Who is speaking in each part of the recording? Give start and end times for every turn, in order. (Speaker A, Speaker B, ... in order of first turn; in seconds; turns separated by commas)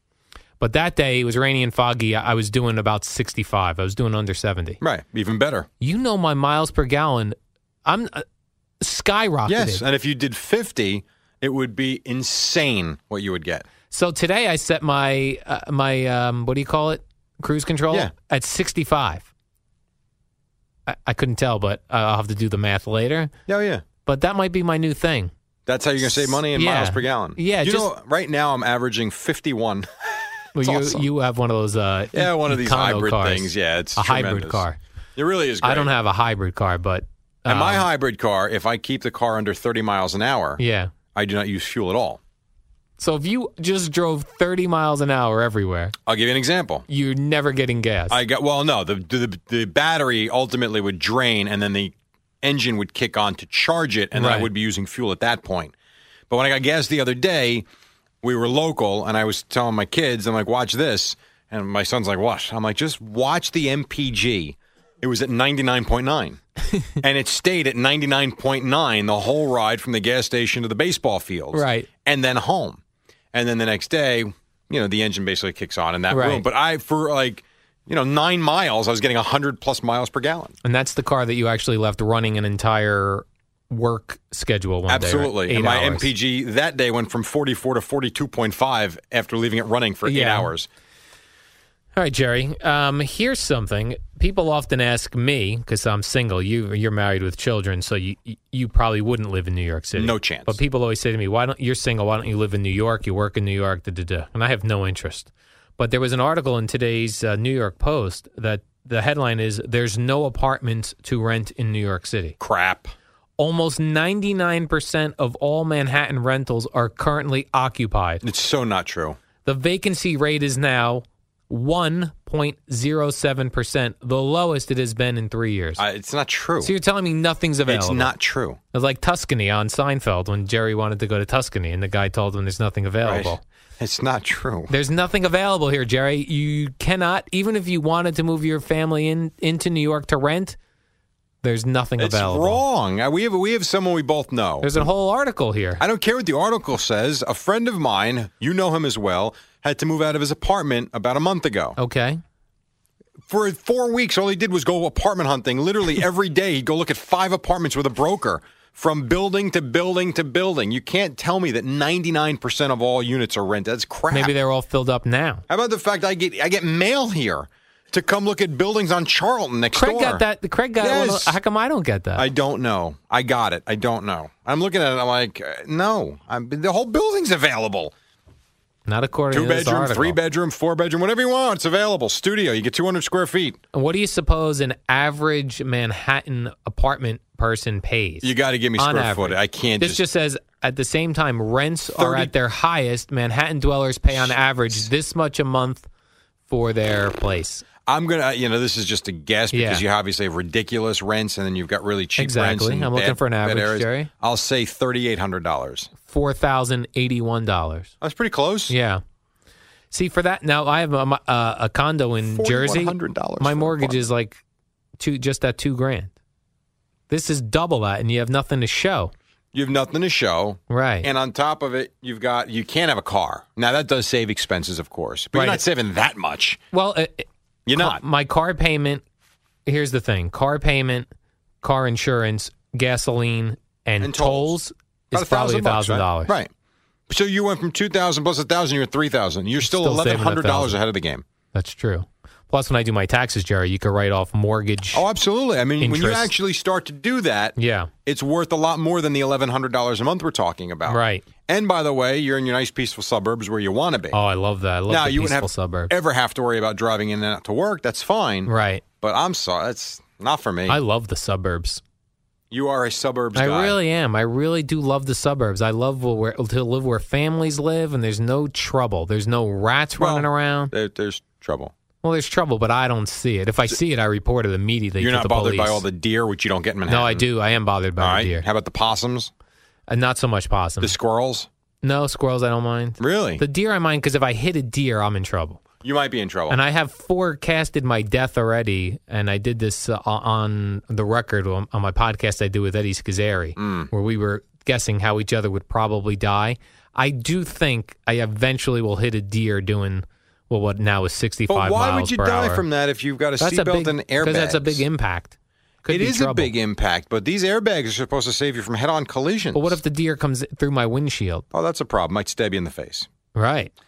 Speaker A: 0.6-4.8, Speaker B: 4.8-5.7, Speaker A: 5.8-8.2, Speaker A: 8.8-9.8, Speaker B: 9.5-13.7, Speaker A: 13.9-19.3, Speaker A: 20.9-23.3, Speaker B: 23.5-23.8, Speaker A: 24.1-25.3, Speaker B: 25.7-31.1, Speaker A: 26.0-27.9, Speaker A: 30.6-34.8, Speaker B: 32.1-34.6, Speaker B: 35.2-35.9, Speaker A: 35.6-37.9, Speaker B: 37.5-40.6, Speaker A: 40.6-40.9, Speaker B: 41.1-42.2, Speaker A: 43.0-45.9, Speaker B: 46.1-46.9, Speaker A: 46.9-48.2, Speaker B: 48.1-55.7, Speaker A: 54.1-54.5, Speaker B: 56.3-57.6, Speaker B: 58.2-66.4, Speaker B: 67.0-72.8, Speaker A: 71.5-71.9, Speaker B: 73.3-80.5, Speaker A: 76.1-76.5, Speaker A: 80.6-86.1, Speaker B: 84.9-90.7, Speaker A: 90.0-90.5, Speaker A: 92.0-112.4, Speaker B: 100.0-100.6, Speaker B: 112.4-112.9, Speaker A: 113.4-118.2, Speaker B: 118.2-119.2, Speaker A: 119.4-125.8, Speaker B: 125.8-126.7, Speaker A: 126.6-128.1, Speaker B: 127.7-128.6, Speaker A: 128.7-133.4, Speaker B: 133.1-134.7, Speaker A: 134.7-140.6, Speaker A: 141.4-142.6, Speaker B: 142.0-144.9, Speaker A: 144.6-145.8, Speaker B: 145.8-151.8, Speaker A: 151.8-152.2, Speaker B: 153.3-164.3, Speaker A: 164.1-165.4, Speaker B: 165.5-170.2, Speaker A: 169.8-172.3, Speaker B: 170.8-171.3, Speaker B: 172.2-177.9, Speaker A: 178.9-180.2, Speaker B: 179.3-183.6, Speaker A: 183.7-195.9, Speaker B: 188.2-190.0, Speaker B: 192.0-192.3, Speaker B: 194.1-194.9, Speaker A: 196.5-197.7, Speaker B: 197.9-205.9, Speaker A: 199.5-199.8, Speaker A: 202.2-204.1, Speaker A: 206.1-207.9, Speaker B: 208.0-208.8, Speaker A: 208.7-209.0, Speaker A: 209.9-214.4, Speaker B: 212.3-214.1, Speaker A: 215.0-216.1, Speaker A: 217.1-219.1, Speaker B: 219.5-226.6, Speaker A: 220.7-221.1, Speaker A: 225.3-225.6, Speaker A: 226.7-229.0, Speaker B: 227.7-228.0, Speaker A: 229.7-231.1, Speaker A: 231.6-236.3, Speaker B: 234.0-234.5, Speaker B: 235.1-236.5, Speaker B: 237.1-241.2, Speaker A: 239.6-240.8, Speaker A: 241.5-245.0, Speaker B: 244.9-254.2, Speaker A: 245.8-246.3, Speaker A: 247.6-247.9, Speaker A: 250.9-251.2, Speaker A: 254.1-255.9, Speaker B: 254.9-258.5, Speaker A: 258.5-258.8, Speaker B: 259.0-260.8, Speaker A: 260.7-261.8, Speaker B: 262.5-263.8, Speaker A: 263.4-270.7, Speaker B: 270.0-271.7, Speaker A: 272.0-275.8, Speaker B: 275.0-277.3, Speaker A: 276.9-278.4, Speaker B: 278.0-279.3, Speaker A: 279.9-280.9, Speaker B: 280.8-281.5, Speaker A: 281.8-285.6, Speaker B: 283.0-283.4, Speaker B: 285.8-286.6, Speaker A: 286.5-302.6, Speaker B: 293.6-293.9, Speaker B: 301.5-304.8, Speaker A: 303.4-306.5, Speaker B: 305.9-309.8, Speaker A: 309.5-311.5, Speaker B: 311.5-313.1, Speaker A: 313.4-313.7